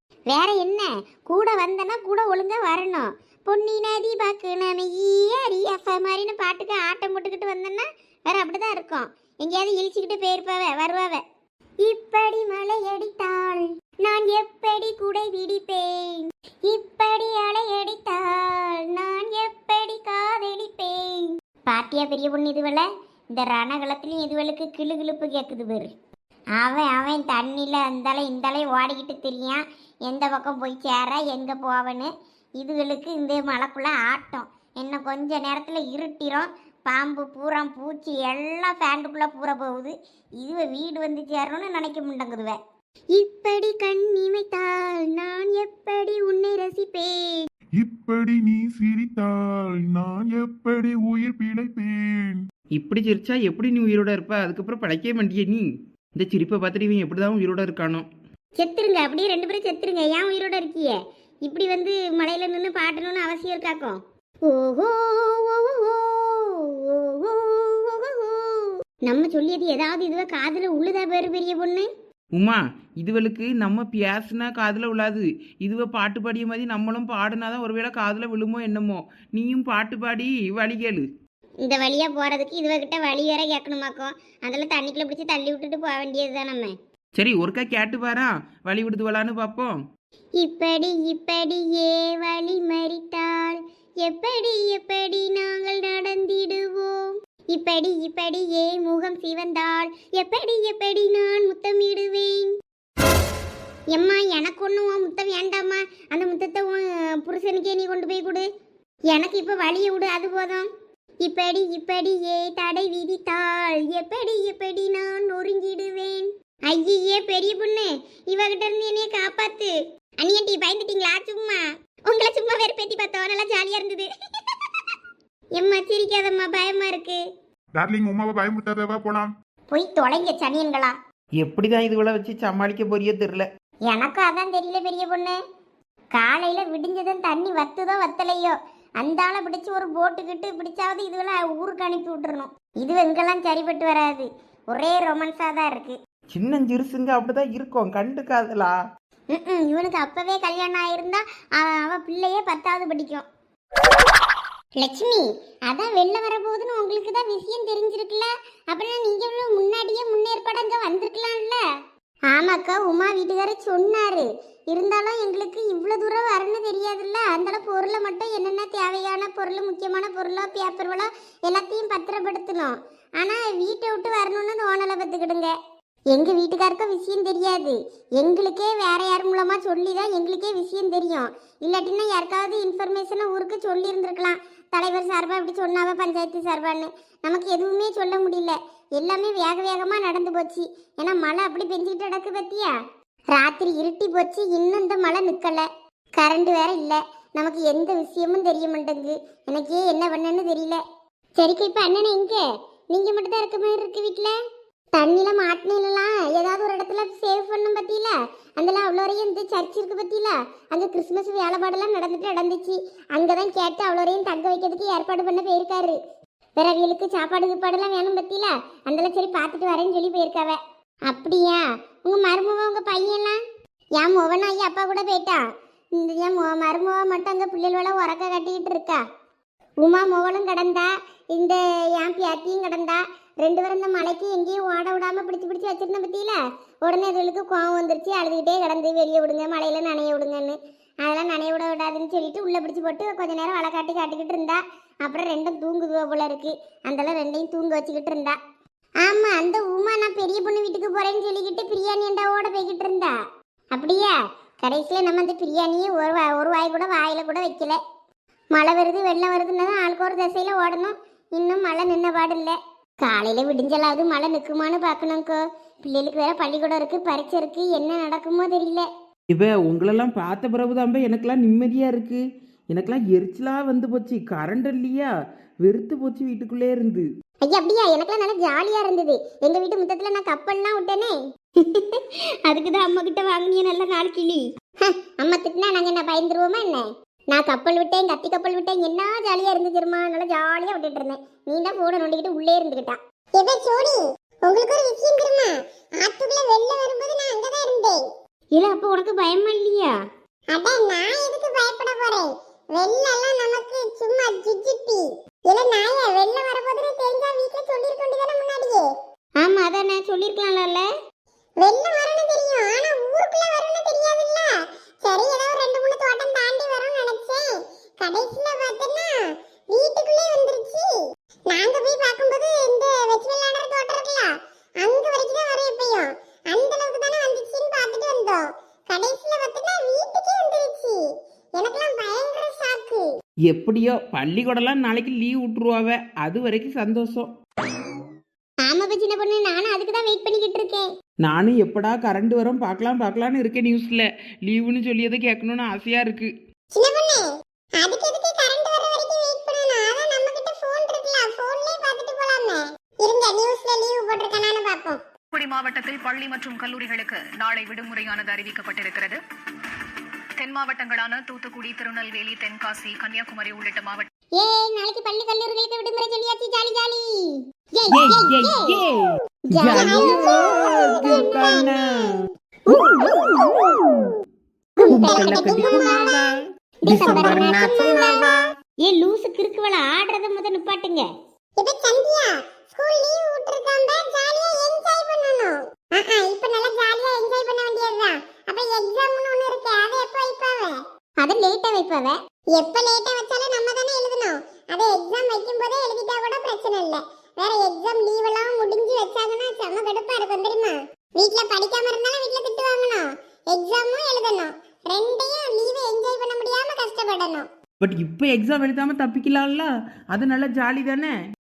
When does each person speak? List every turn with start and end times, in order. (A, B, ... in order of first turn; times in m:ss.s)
0:00.3-0:11.2 A
0:11.8-0:25.9 A
0:26.6-0:42.6 A
0:43.1-0:47.5 A
0:47.8-0:52.4 B
0:52.8-0:58.1 C
0:58.6-1:11.9 A
1:12.4-1:21.1 C
1:21.6-1:26.8 A
1:27.2-1:29.8 C
1:30.4-1:42.5 A
1:43.9-1:48.4 A
1:49.1-1:50.7 A
1:51.2-2:04.1 A
2:05.6-2:07.2 A
2:07.8-2:09.3 B
2:09.7-2:11.0 A
2:11.4-2:13.5 C
2:13.9-2:15.4 A
2:16.1-2:26.0 A
2:26.3-2:28.8 C
2:29.3-2:33.3 A
2:34.8-2:41.6 A
2:42.3-2:55.5 A
2:56.1-3:12.7 A
3:13.3-3:15.6 A
3:16.2-3:20.8 A
3:21.4-3:24.3 A
3:24.9-3:36.0 A
3:36.6-3:43.4 A
3:44.0-3:45.4 A
3:46.0-3:49.0 A
3:49.8-4:08.4 A
4:09.0-4:13.1 A
4:13.7-4:17.8 A
4:18.5-4:28.9 A
4:29.3-4:35.1 C
4:35.6-4:37.1 C
4:37.4-4:53.0 A
4:53.4-4:58.0 D
4:58.5-4:59.9 A
5:00.5-5:08.9 D
5:09.4-5:10.9 A
5:11.6-5:20.9 D
5:21.5-5:31.0 D
5:31.6-5:33.0 D
5:33.5-5:37.3 C
5:38.6-5:40.9 A
5:41.2-5:46.3 C
5:46.8-5:47.3 D
5:47.8-5:55.0 D
5:55.3-5:59.2 E
6:00.4-6:04.1 E
6:04.4-6:08.7 A
6:07.9-6:09.0 C
6:09.5-6:10.3 A
6:09.5-6:12.2 C
6:09.7-6:11.4 D
6:12.7-6:13.5 D
6:12.9-6:13.3 C
6:14.8-6:16.1 D
6:14.8-6:16.1 A
6:14.8-6:16.3 C
6:16.9-6:18.3 A
6:16.9-6:18.3 C
6:17.0-6:18.1 D
6:18.8-6:21.1 A
6:21.6-6:30.8 D
6:31.2-6:32.2 A
6:32.6-6:40.8 D
6:32.9-6:33.7 A
6:34.8-6:36.7 A
6:37.6-6:40.6 A
6:41.2-6:43.0 A
6:41.3-6:47.3 D
6:43.5-6:44.4 A
6:44.9-6:47.4 A
6:47.8-6:51.1 C